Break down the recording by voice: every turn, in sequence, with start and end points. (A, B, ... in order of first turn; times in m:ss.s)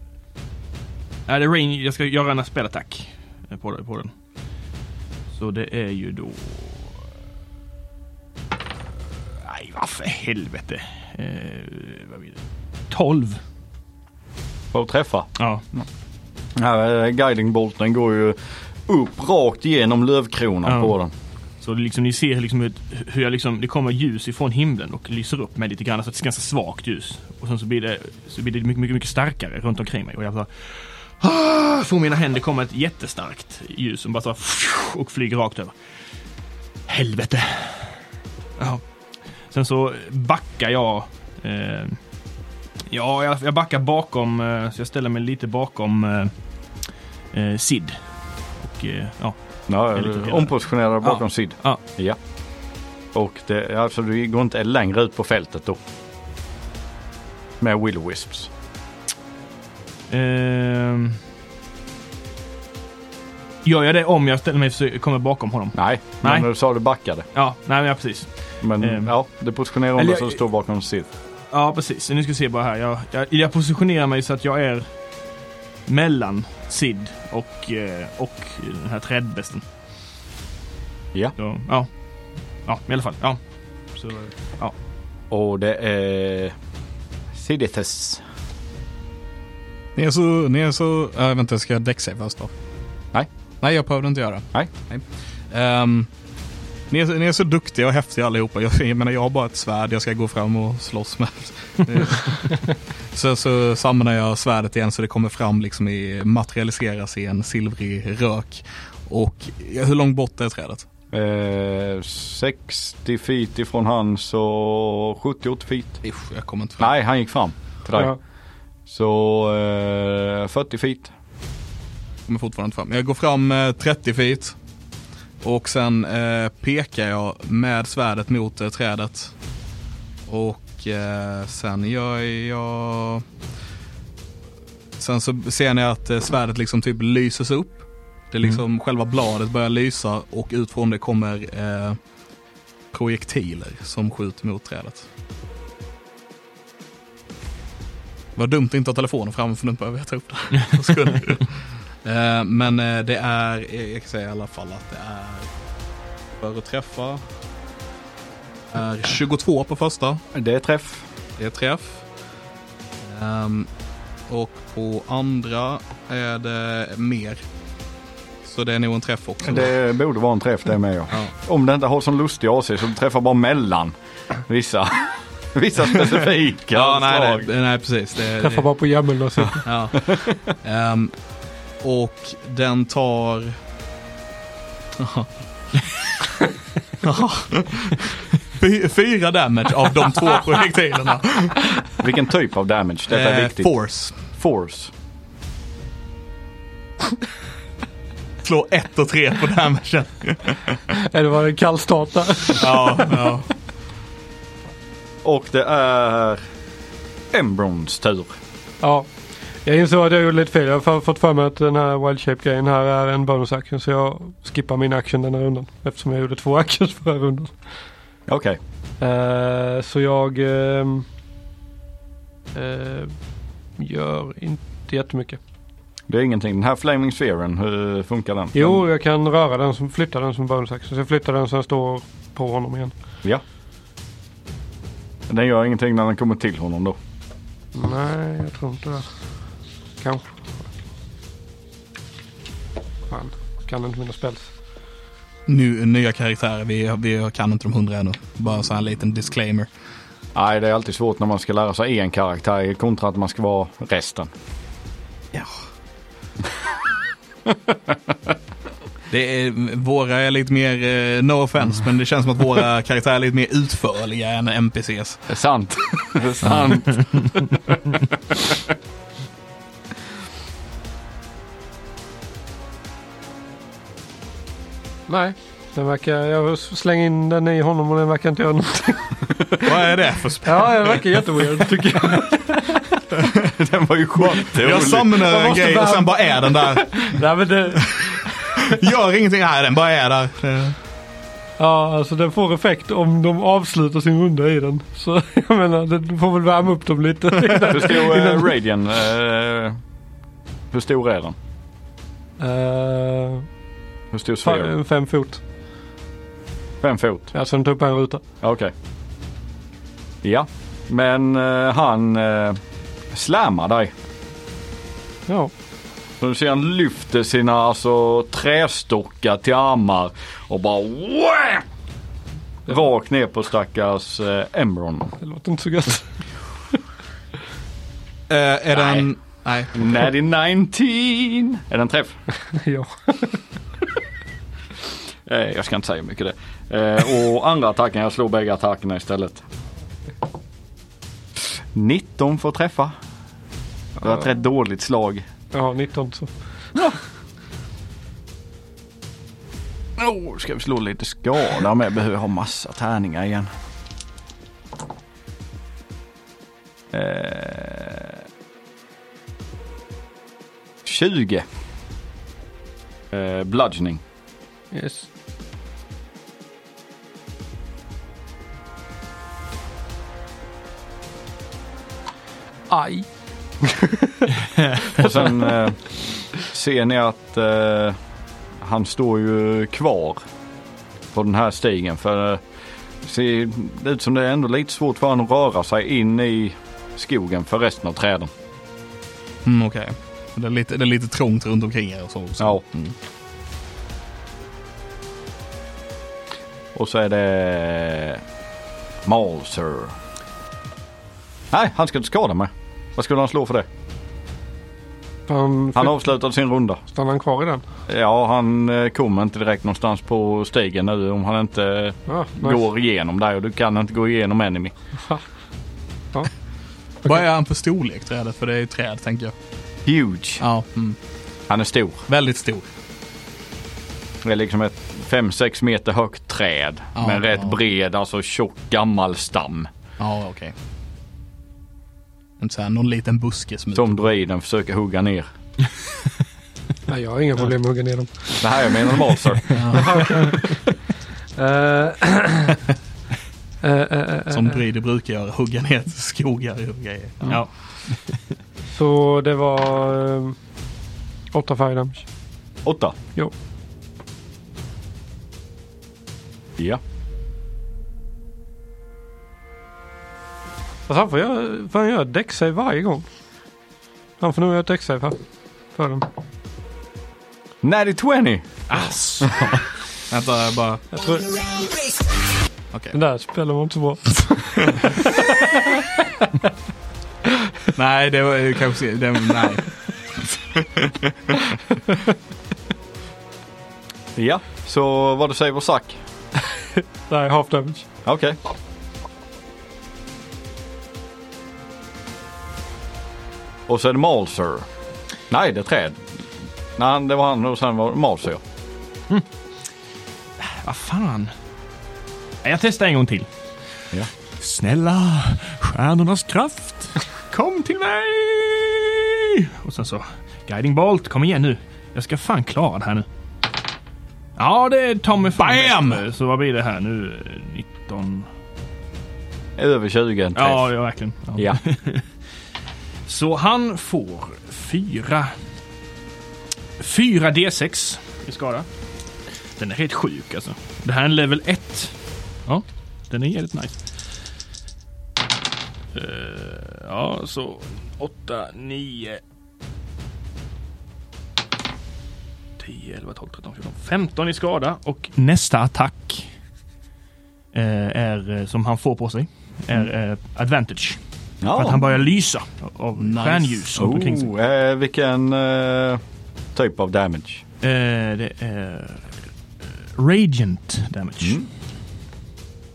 0:01.3-0:04.2 A
0:05.3-0:07.1 A
0:09.2-0:13.4 A
0:14.7-0:15.8 B
0:15.4-0:15.6 A
0:16.6-0:21.1 B
0:20.7-0:20.9 A
0:21.6-0:35.8 A
0:36.9-0:38.0 A
0:38.6-0:42.1 A
0:42.9-0:51.8 A
0:49.7-0:52.2 B
0:53.1-0:55.8 B
0:57.6-0:58.5 B
1:00.1-1:01.2 A
1:03.6-1:06.5 A
1:05.8-1:07.3 B
1:07.3-1:09.1 A
1:08.6-1:11.1 B
1:10.0-1:10.4 A
1:11.5-1:15.3 A
1:15.9-1:19.6 A
1:21.4-1:24.8 A
1:25.3-1:26.5 B
1:27.3-1:28.2 B
1:30.0-1:32.5 C
1:33.6-1:36.1 C
1:36.9-1:50.9 C
1:51.1-1:56.0 B
1:56.0-1:56.9 C
1:56.8-1:58.3 B
1:58.9-2:01.1 B
2:02.3-2:04.6 C
2:05.4-2:09.4 C
2:10.2-2:13.2 C
2:15.0-2:22.0 C
2:22.9-2:25.1 C
2:28.4-2:35.5 C
2:36.4-2:37.2 C
2:38.7-2:40.2 C
2:40.3-2:41.1 B
2:41.4-2:42.1 C
2:43.0-2:43.7 C
2:44.3-2:47.5 C
2:48.4-2:49.7 C
2:49.5-2:53.9 B
2:54.4-2:57.5 B
2:56.7-2:58.8 C
2:58.4-2:59.7 D
2:59.6-3:01.2 C
3:00.0-3:00.4 B
3:01.8-3:03.6 C
3:05.0-3:05.3 C
3:07.0-3:11.7 C
3:12.0-3:14.9 B
3:13.1-3:14.2 C
3:18.4-3:20.8 C
3:20.9-3:23.2 D
3:22.6-3:23.5 C
3:25.2-3:26.4 B
3:27.3-3:28.4 B
3:28.8-3:29.1 D
3:29.6-3:37.6 D
3:38.3-3:38.6 B
3:39.0-3:41.1 D
3:42.5-3:43.2 D
3:43.8-3:45.4 D
3:46.1-3:48.8 B
3:48.5-3:52.9 D
3:55.3-3:57.0 B
3:57.8-3:59.2 D
4:00.0-4:00.3 D
4:03.1-4:04.5 D
4:05.5-4:09.7 C
4:10.4-4:14.3 B
4:19.1-4:25.3 C
4:25.3-4:27.8 B
4:35.1-4:39.6 D
4:39.6-4:41.1 C
4:40.4-4:42.8 D
4:43.4-4:45.2 B
4:44.2-4:47.2 C
4:45.2-4:48.6 D
4:48.7-4:50.8 C
4:51.6-4:58.5 D
4:57.7-4:59.8 B
5:00.7-5:01.4 B
5:02.4-5:03.5 D
5:04.1-5:04.7 B
5:04.4-5:05.4 D
5:06.8-5:07.3 B
5:07.3-5:08.2 D
5:08.4-5:08.7 B
5:10.2-5:12.6 B
5:13.1-5:13.9 B
5:15.3-5:15.5 D
5:16.2-5:21.6 B
5:22.7-5:25.2 B
5:25.2-5:26.2 D
5:28.3-5:29.9 C
5:28.7-5:29.1 B
5:29.7-5:32.2 B
5:32.5-5:33.4 D
5:35.3-5:39.4 B
5:41.7-5:42.9 B
5:44.0-5:45.2 B
5:45.5-5:46.3 D
5:50.0-5:53.5 B
5:56.9-5:58.2 B
6:00.8-6:01.5 B
6:03.1-6:04.0 B
6:04.7-6:05.1 D
6:12.7-6:13.1 D
6:13.6-6:14.3 D
6:15.0-6:18.0 B
6:15.0-6:15.3 D
6:18.6-6:20.2 B
6:21.1-6:22.4 B
6:23.0-6:28.3 B
6:29.4-6:33.0 C
6:36.8-6:38.2 B
6:39.0-6:40.0 B
6:41.5-6:43.7 B
6:45.3-6:46.0 D
6:45.8-6:46.8 B
6:46.9-6:47.6 D
6:47.9-6:54.7 B
6:52.1-6:52.6 D
6:57.0-6:59.3 C
6:59.9-7:00.4 B
7:00.4-7:01.0 C
7:01.5-7:02.0 B
7:02.1-7:02.6 C
7:04.2-7:09.7 B
7:07.0-7:07.6 C
7:10.0-7:10.6 C
7:12.4-7:14.0 C
7:13.8-7:15.3 B
7:16.9-7:18.7 D
7:18.4-7:19.9 B
7:19.5-7:20.4 C
7:19.7-7:20.8 D
7:21.4-7:22.6 D
7:23.6-7:24.6 D
7:24.3-7:27.4 C
7:27.3-7:28.2 A
7:28.7-7:30.4 D
7:31.3-7:32.1 D
7:32.6-7:33.0 B
7:40.9-7:43.1 D
7:44.2-7:45.2 D
7:45.7-7:46.1 D
7:47.6-7:48.6 B
7:48.7-7:49.7 A
7:50.1-7:50.8 C
7:50.9-7:51.6 D
7:52.9-7:55.9 D
7:57.8-8:01.4 C
8:04.2-8:06.0 B
8:07.1-8:07.9 D
8:08.0-8:08.4 B
8:13.7-8:14.7 B
8:15.3-8:16.1 B
8:16.8-8:18.4 B
8:20.4-8:21.4 A
8:22.4-8:23.3 A
8:24.4-8:33.1 A
8:34.4-8:38.3 A
8:35.4-8:36.0 C
8:39.6-8:40.7 B
8:40.4-8:42.2 A
8:43.0-8:45.4 A
8:46.8-8:48.7 A
8:49.4-8:53.9 A
8:55.9-8:59.2 A
9:02.6-9:06.3 A
9:07.5-9:14.3 A
9:11.4-9:11.9 B
9:13.0-9:13.7 C
9:13.8-9:16.0 B
9:16.6-9:17.4 B
9:17.6-9:21.4 A
9:21.2-9:21.5 B